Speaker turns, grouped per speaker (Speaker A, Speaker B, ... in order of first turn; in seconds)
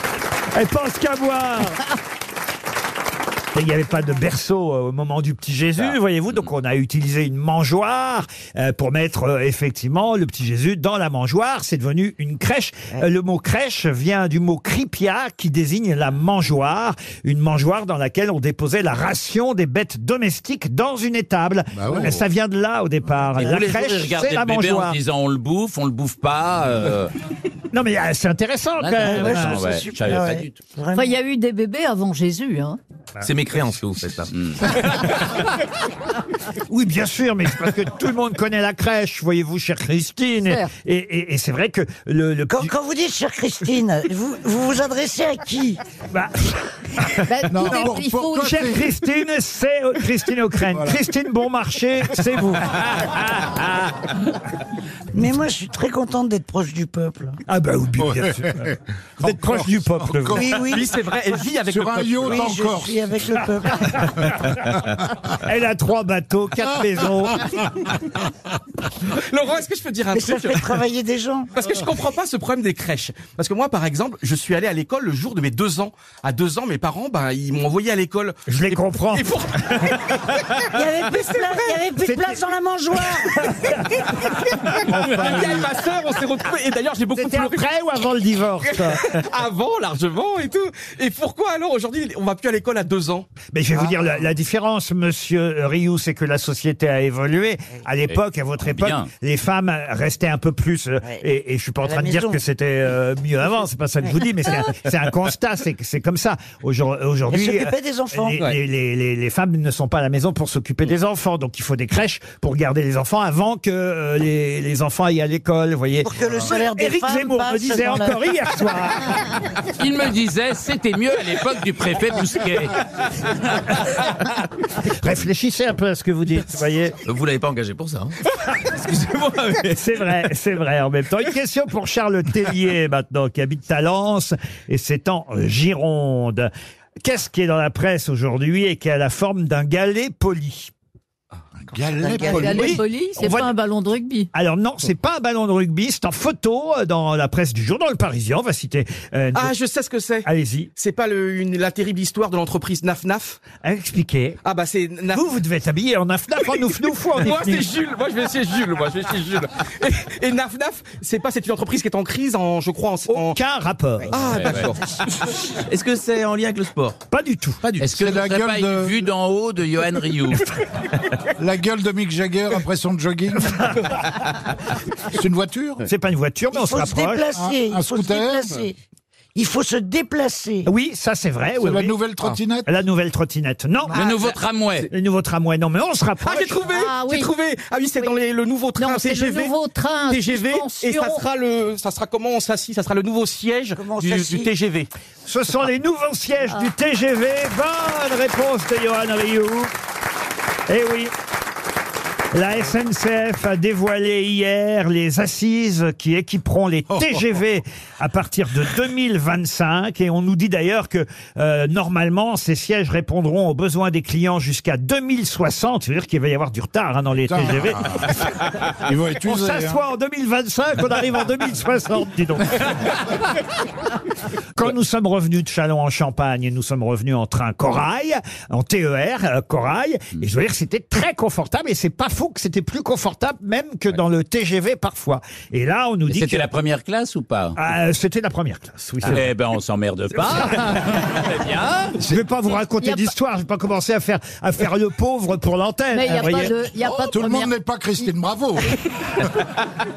Speaker A: 0.5-1.8, 3.5-24.9, 27.7-29.6, 36.7-42.7, 46.1-47.9, 48.4-52.8, 57.5-60.6, 65.4-67.6, 78.5-79.3, 82.0-82.4, 83.3-84.1, 84.8-85.6, 87.1-89.0, 93.5-119.2, 123.7-124.1, 124.7-127.0, 129.7-136.5, 137.0-140.7, 142.4-143.5, 144.3-149.5, 150.2-150.7, 153.6-154.4, 155.1-157.7, 163.1-164.3, 167.1-167.6, 175.8-177.3, 180.7-182.0, 182.6-184.0, 184.9-186.6, 195.2-199.7, 200.7-201.1, 202.3-218.3, 219.2-222.8, 224.6-236.5, 237.6-239.3, 240.2-240.7, 242.0-246.5
Speaker B: 5.8-6.5, 23.4-27.1, 28.8-30.6, 34.3-34.7, 98.1-99.1, 119.7-122.8, 164.2-164.7, 167.8-170.5, 183.9-184.9, 236.1-237.6, 239.1-242.0
Speaker C: 21.7-22.2, 47.5-48.9, 50.7-51.0, 58.0-60.5, 61.6-63.1, 141.7-142.8, 167.9-168.9, 171.4-173.8, 175.1-175.8, 177.3-178.6, 181.6-182.7, 206.9-207.2, 217.3-218.2, 218.8-219.8, 246.8-248.8
Speaker D: 29.0-31.2, 42.5-45.8, 55.1-57.4, 60.3-60.9, 62.2-64.0, 70.1-71.5, 80.7-83.5, 101.8-102.4, 107.3-108.5, 116.0-118.2, 142.0-142.7, 176.5-178.7, 179.3-180.7, 193.7-194.5
Speaker E: 30.9-32.8, 40.4-40.7, 47.3-48.6, 142.2-144.3, 186.7-187.3, 188.8-191.2, 242.8-243.1, 245.9-247.6
Speaker F: 33.2-34.3, 127.0-129.8, 165.7-167.0, 167.6-167.9
Speaker G: 60.6-62.5, 69.1-70.8, 71.5-80.7, 84.9-87.7, 88.6-93.3, 149.3-153.4, 154.4-155.3, 157.1-163.4, 164.1-164.8, 186.2-189.6, 190.1-194.9